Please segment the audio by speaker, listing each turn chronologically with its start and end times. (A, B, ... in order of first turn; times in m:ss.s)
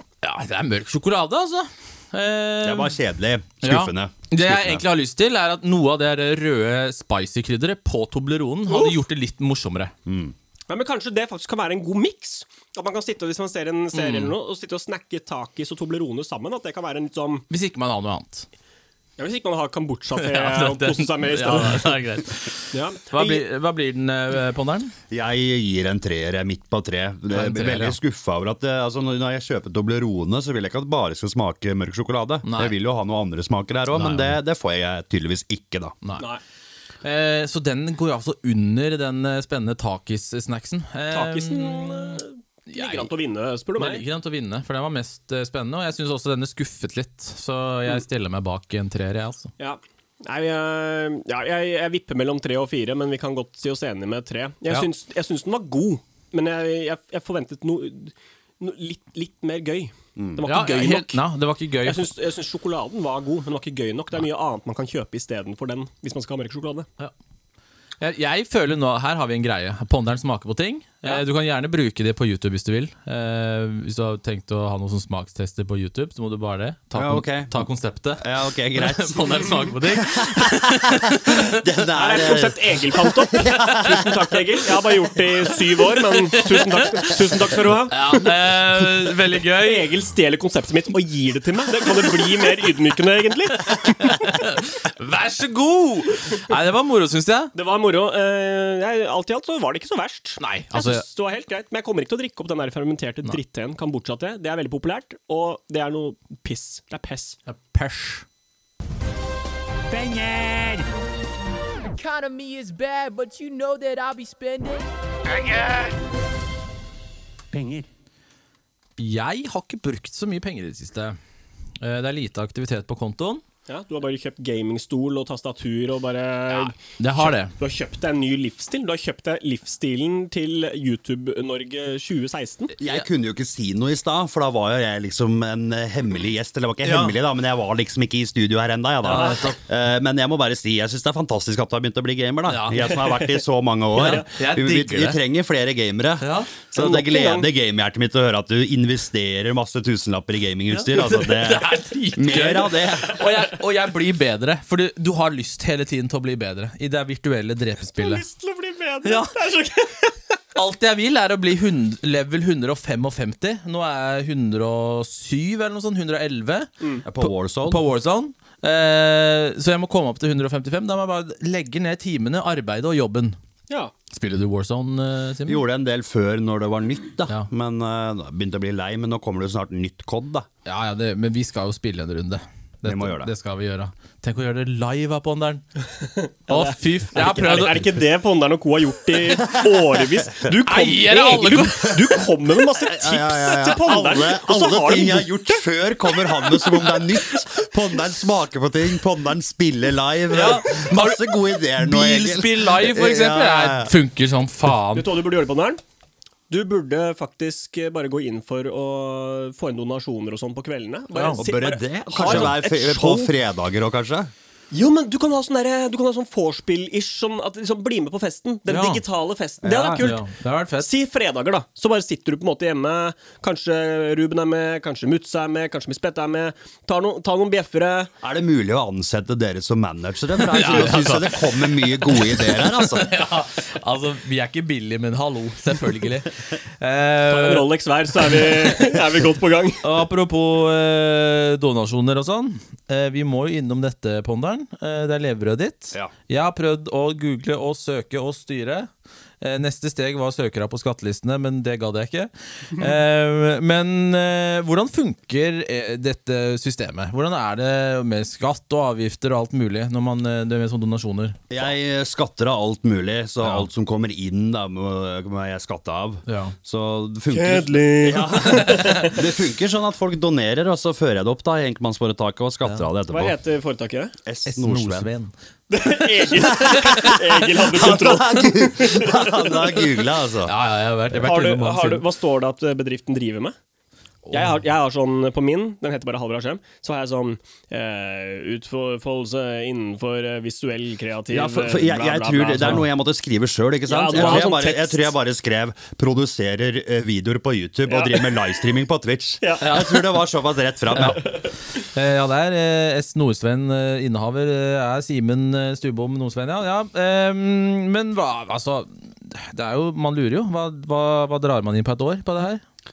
0:00.2-0:02.9 A
0:02.6-0:04.8 B
0:03.6-0:09.9 A
0:08.7-0:09.0 C
0:10.0-0:10.3 B
0:10.7-0:17.4 C
0:13.9-0:14.3 A
0:17.5-0:18.5 A
0:19.2-0:22.0 C
0:20.2-0:24.9 A
0:22.7-0:23.4 C
0:25.1-0:36.0 B
0:27.3-0:28.0 A
0:32.4-0:32.7 A
0:33.9-0:34.4 A
0:36.0-0:36.3 A
0:37.0-0:43.1 A
0:41.1-0:44.0 C
0:43.8-0:49.5 A
0:49.6-1:01.2 C
1:00.4-1:02.1 A
1:01.8-1:06.9 C
1:08.0-1:21.4 A
1:17.0-1:17.5 B
1:18.2-1:24.1 B
1:22.0-1:28.1 C
1:23.7-1:23.9 A
1:26.1-1:26.9 A
1:27.9-1:29.9 A
1:29.6-1:34.5 C
1:33.7-1:37.5 A
1:37.5-1:47.4 C
1:40.4-1:41.0 A
1:47.5-1:48.2 A
1:49.9-1:50.8 D
1:51.9-1:55.9 D
1:57.5-1:57.8 D
1:59.0-2:01.2 A
2:01.8-2:03.4 A
2:03.7-2:12.7 C
2:06.5-2:07.5 A
2:12.8-2:13.0 A
2:12.8-2:33.2 B
2:16.8-2:17.1 A
2:19.0-2:19.6 A
2:19.1-2:19.4 C
2:22.5-2:22.9 A
2:22.9-2:23.4 C
2:24.0-2:25.2 A
2:26.2-2:26.5 A
2:26.8-2:27.5 C
2:30.7-2:38.2 A
2:37.9-2:40.2 C
2:39.0-2:39.3 A
2:40.5-2:53.4 A
2:47.0-2:47.8 B
2:54.1-2:55.6 A
2:55.4-3:00.5 B
3:00.6-3:05.6 A
3:02.8-3:03.3 B
3:06.0-3:15.6 C
3:06.5-3:07.9 A
3:10.6-3:12.2 A
3:12.8-3:23.9 B
3:16.3-3:17.0 C
3:20.3-3:25.1 A
3:24.9-3:25.8 C
3:26.5-3:33.3 C
3:31.1-3:31.4 A
3:31.4-3:34.3 B
3:32.2-3:32.5 A
3:34.7-3:40.2 C
3:38.7-3:39.0 A
3:39.6-3:40.0 B
3:40.0-3:40.9 A
3:40.8-3:48.1 C
3:48.2-3:53.1 B
3:50.4-3:57.6 A
3:57.3-3:59.8 C
3:58.2-3:58.9 A
3:59.8-4:21.4 A
4:21.5-4:33.3 B
4:23.4-4:23.7 A
4:26.2-4:26.5 A
4:27.3-4:29.1 C
4:33.1-4:34.1 C
4:34.3-4:35.1 B
4:34.5-4:35.3 A
4:35.7-4:39.7 C
4:36.7-4:40.5 B
4:36.7-4:37.1 A
4:40.4-4:42.0 A
4:41.1-4:41.4 B
4:41.2-4:43.5 C
4:44.2-4:44.6 A
4:44.3-4:52.8 C
4:51.3-5:01.3 B
4:53.9-4:55.1 C
4:54.1-4:54.4 A
4:57.9-4:58.4 C
4:59.4-4:59.6 C
4:59.6-5:00.0 A
5:00.9-5:12.6 A